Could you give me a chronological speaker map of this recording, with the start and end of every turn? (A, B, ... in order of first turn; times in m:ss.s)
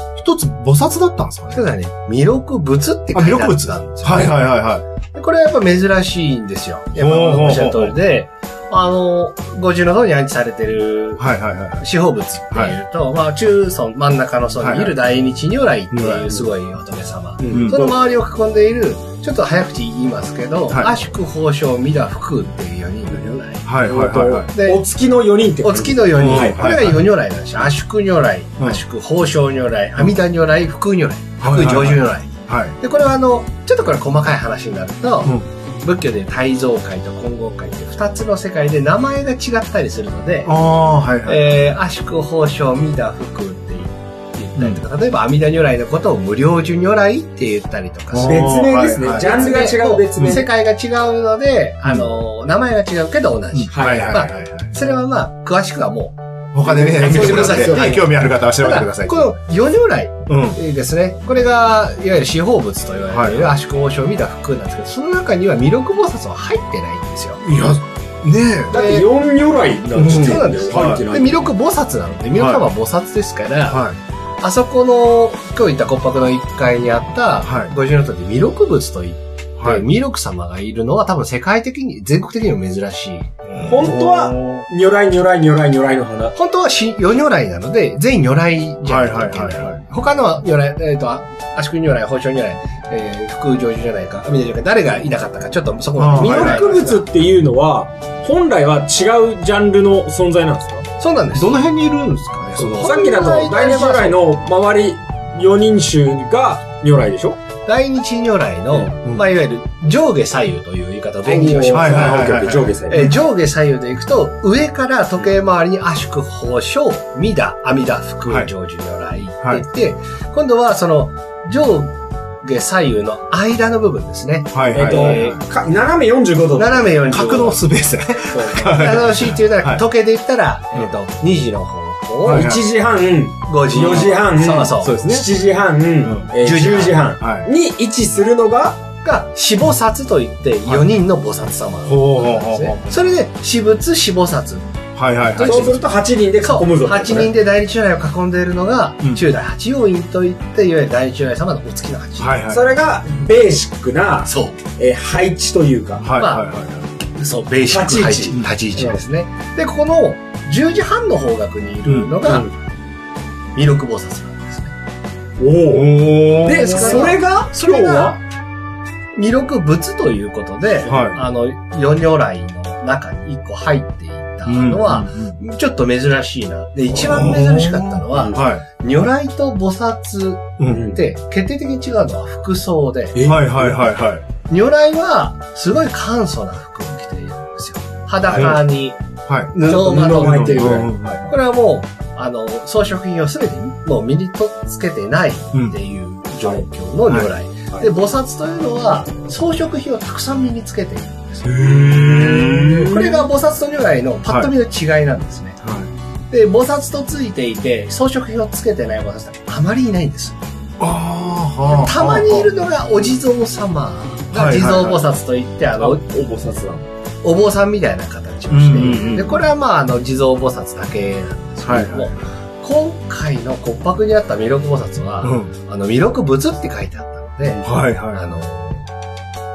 0:00.2-0:01.6 A
0:01.5-0:04.4 B
0:03.1-0:04.8 A
0:05.1-0:11.2 B
0:07.0-0:07.9 A
0:11.2-0:11.8 A
0:11.8-0:24.8 B
0:14.6-0:14.9 A
0:15.9-0:16.2 A
0:17.4-0:17.8 C
0:17.5-0:17.9 A
0:23.6-0:24.5 A
0:23.9-0:26.8 C
0:25.6-0:40.5 B
0:26.1-0:27.0 A
0:31.4-0:32.8 A
0:40.4-0:41.5 A
0:41.2-0:58.1 B
0:48.1-0:49.5 A
0:48.3-0:50.5 C
0:53.5-0:54.7 A
0:53.7-0:54.2 C
0:56.5-0:59.3 A
0:56.7-0:58.0 C
0:58.6-1:07.4 B
1:00.3-1:00.6 A
1:03.1-1:03.5 A
1:07.4-1:08.8 A
1:08.7-1:11.5 C
1:08.7-1:09.0 B
1:10.0-1:11.0 A
1:10.0-1:13.8 B
1:12.4-1:12.7 A
1:13.7-1:14.0 A
1:14.4-1:23.3 B
1:17.4-1:17.7 A
1:19.6-1:19.8 A
1:23.5-1:24.7 A
1:23.6-1:26.4 C
1:26.4-1:37.0 B
1:28.9-1:29.8 A
1:36.0-1:36.7 A
1:36.2-1:40.9 C
1:41.0-1:41.6 B
1:41.4-1:43.0 A
1:42.6-1:47.4 C
1:42.7-1:44.2 B
1:47.7-2:05.4 B
1:51.2-1:53.1 C
1:51.7-1:53.1 A
2:04.5-2:05.4 A
2:04.7-2:06.9 C
2:06.6-2:07.6 B
2:07.1-2:09.8 A
2:08.3-2:08.7 C
2:08.5-2:12.5 B
2:12.2-2:12.6 A
2:12.2-2:18.8 C
2:13.5-2:14.9 B
2:13.8-2:14.2 A
2:14.8-2:15.3 A
2:16.0-2:16.3 A
2:16.4-2:17.0 B
2:17.2-2:17.5 A
2:19.0-2:24.7 B
2:21.9-2:22.9 A
2:24.9-2:25.8 A
2:25.4-2:25.8 B
2:25.4-2:27.3 C
2:26.4-2:32.4 B
2:32.2-2:32.7 A
2:32.5-2:36.1 C
2:34.2-2:34.6 B
2:36.0-2:36.9 A
2:36.2-2:36.4 B
2:37.2-2:42.5 B
2:37.7-2:39.0 C
2:41.9-2:42.2 A
2:42.2-2:42.5 C
2:43.6-2:44.8 B
2:45.4-2:48.2 C
2:45.7-2:47.2 A
2:46.5-2:48.2 B
2:49.2-3:03.7 B
2:50.9-2:51.2 A
2:54.5-2:55.4 A
2:56.9-2:58.6 A
2:58.2-2:58.4 C
3:00.6-3:00.9 A
3:00.7-3:01.0 C
3:03.2-3:03.5 C
3:03.2-3:04.2 A
3:04.5-3:09.0 B
3:08.3-3:08.6 A
3:09.2-3:09.5 A
3:09.5-3:21.6 B
3:09.7-3:11.2 C
3:10.1-3:11.3 A
3:21.5-3:23.2 C
3:21.6-3:23.0 A
3:22.9-3:25.6 B
3:25.6-3:25.9 A
3:26.3-3:30.4 B
3:30.8-3:32.5 A
3:31.7-3:36.0 B
3:34.3-3:35.0 A
3:35.8-3:36.9 C
3:37.2-3:48.9 B
3:38.5-3:39.5 A
3:41.6-3:42.2 A
3:45.2-3:45.5 A
3:47.6-3:48.2 A